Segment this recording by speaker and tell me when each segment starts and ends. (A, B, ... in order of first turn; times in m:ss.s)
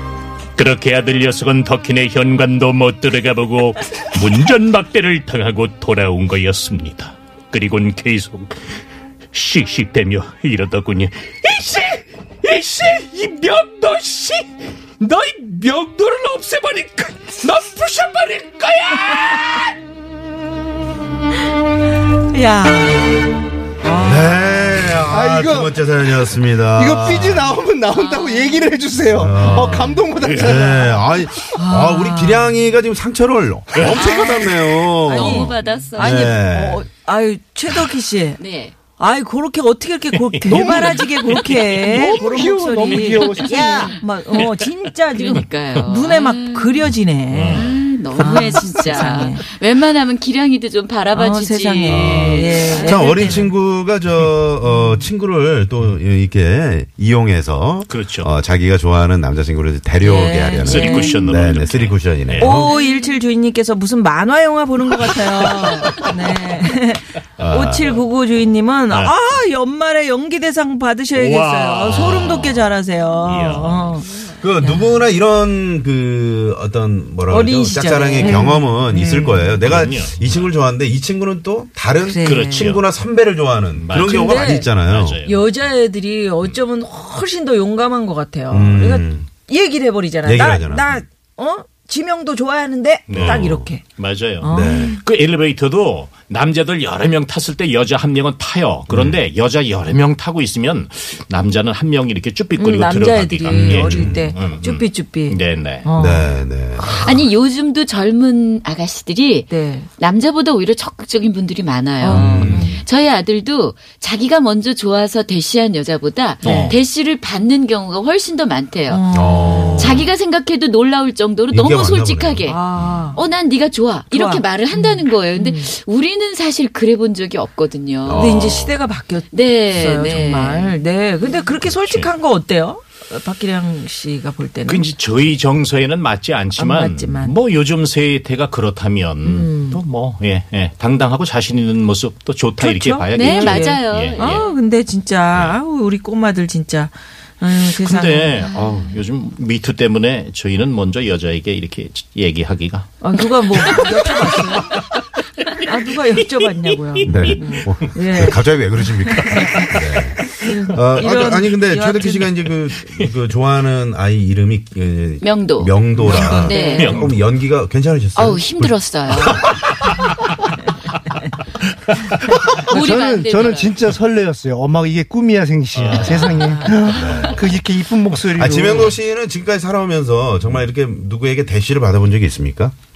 0:00.6-0:08.8 A
0:09.3-0:11.5 A
0:11.5-0:19.8 B
0:22.3-0:23.3 C
0:23.8-0:24.9 C
0:24.0-0:27.6 D
0:25.1-0:25.7 E
0:26.7-0:31.1 E
0:27.9-0:28.9 F
0:29.1-0:36.9 D
0:29.4-0:30.6 A
0:31.5-0:32.6 C
0:33.8-0:49.5 C
0:35.1-0:36.2 F
0:38.4-0:38.7 F
0:40.2-0:41.9 A
0:40.5-0:44.0 E
0:43.2-0:43.9 F
0:44.4-0:44.6 A
0:45.1-0:46.8 F
0:47.3-0:49.1 A
0:47.5-0:53.1 F
0:48.7-0:49.2 E
0:51.1-0:53.5 C
0:51.8-1:02.7 D
0:54.6-0:55.0 C
0:57.9-0:58.3 A
1:00.0-1:01.3 C
1:00.6-1:02.7 A
1:02.4-1:15.0 C
1:07.4-1:08.0 D
1:08.9-1:09.1 A
1:11.2-1:12.7 A
1:13.2-1:14.0 A
1:14.3-1:25.2 D
1:17.3-1:19.6 C
1:19.6-1:20.5 A
1:22.0-1:22.8 C
1:22.2-1:22.8 A
1:23.8-1:25.5 A
1:24.0-1:24.7 C
1:25.2-1:33.8 C
1:28.5-1:29.3 D
1:30.2-1:31.0 D
1:33.1-1:45.8 A
1:33.1-1:33.6 D
1:34.4-1:35.0 C
1:34.5-1:35.0 D
1:38.9-1:39.2 D
1:42.6-1:46.3 C
1:43.5-1:44.3 D
1:46.0-1:47.0 D
1:47.0-1:59.1 F
1:49.5-1:49.9 C
1:52.0-1:52.8 C
1:52.0-1:52.8 D
1:56.4-1:56.7 C
1:56.4-1:56.8 A
1:56.4-1:56.8 D
1:58.9-2:00.0 C
1:59.1-2:00.1 D
1:59.8-2:02.6 F
2:01.5-2:02.5 D
2:02.4-2:03.2 C
2:03.2-2:08.2 F
2:04.1-2:05.7 C
2:08.0-2:08.8 D
2:08.1-2:14.9 C
2:09.3-2:10.8 F
2:11.6-2:12.1 A
2:14.7-2:24.5 A
2:16.5-2:17.4 C
2:19.2-2:19.8 C
2:22.6-2:28.4 C
2:23.1-2:24.4 F
2:25.3-2:25.6 A
2:27.7-2:35.0 A
2:33.0-2:34.8 C
2:35.6-2:42.4 C
2:36.9-2:37.6 A
2:37.1-2:49.4 D
2:45.2-2:45.7 F
2:46.0-2:47.0 C
2:46.0-2:46.4 E
2:46.4-2:47.0 F
2:46.7-2:47.2 A
2:48.2-2:49.5 F
2:49.9-2:50.4 A
2:52.2-2:52.6 A
2:52.6-2:58.9 E
2:52.7-2:53.8 F
2:55.7-2:56.8 A
2:56.4-2:56.7 C
2:56.9-2:57.6 D
2:58.3-3:02.7 D